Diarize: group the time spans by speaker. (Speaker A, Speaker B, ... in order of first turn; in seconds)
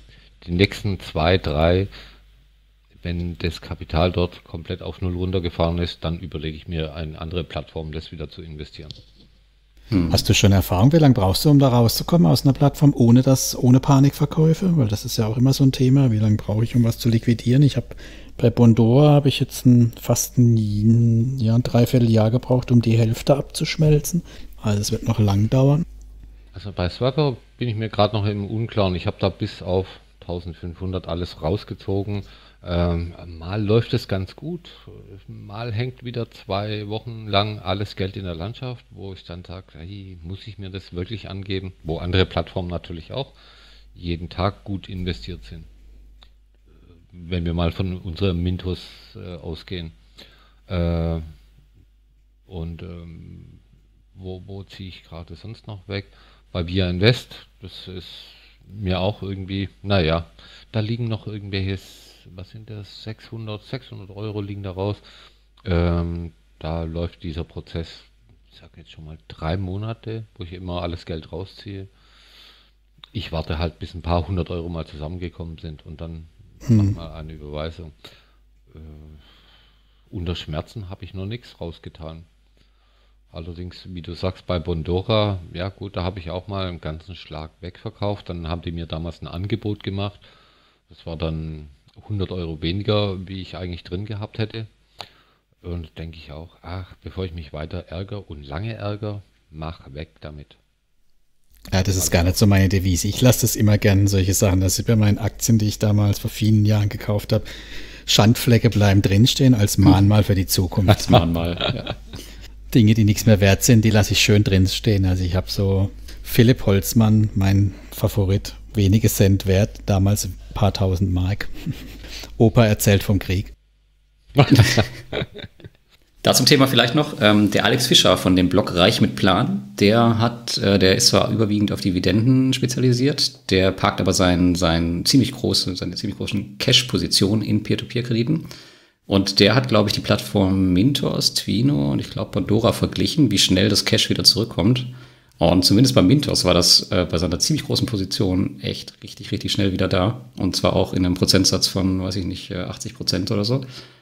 Speaker A: 0.4-1.9, 3.0-9.0, 26.5-43.4, 43.9-45.7, 47.1-50.0, 50.7-51.3, 52.5-53.6, 54.1-65.0, 65.6-71.9, 73.1-78.0, 78.7-79.3, 80.1-82.3, 83.3-90.3, 90.9-94.7, 95.6-100.6, 102.0-102.2, 124.4-125.3
Speaker B: 9.9-10.2, 110.9-112.0, 126.2-138.5, 139.1-153.7
Speaker C: 10.1-25.9, 76.7-77.0, 101.7-107.5, 108.1-111.2, 112.7-123.5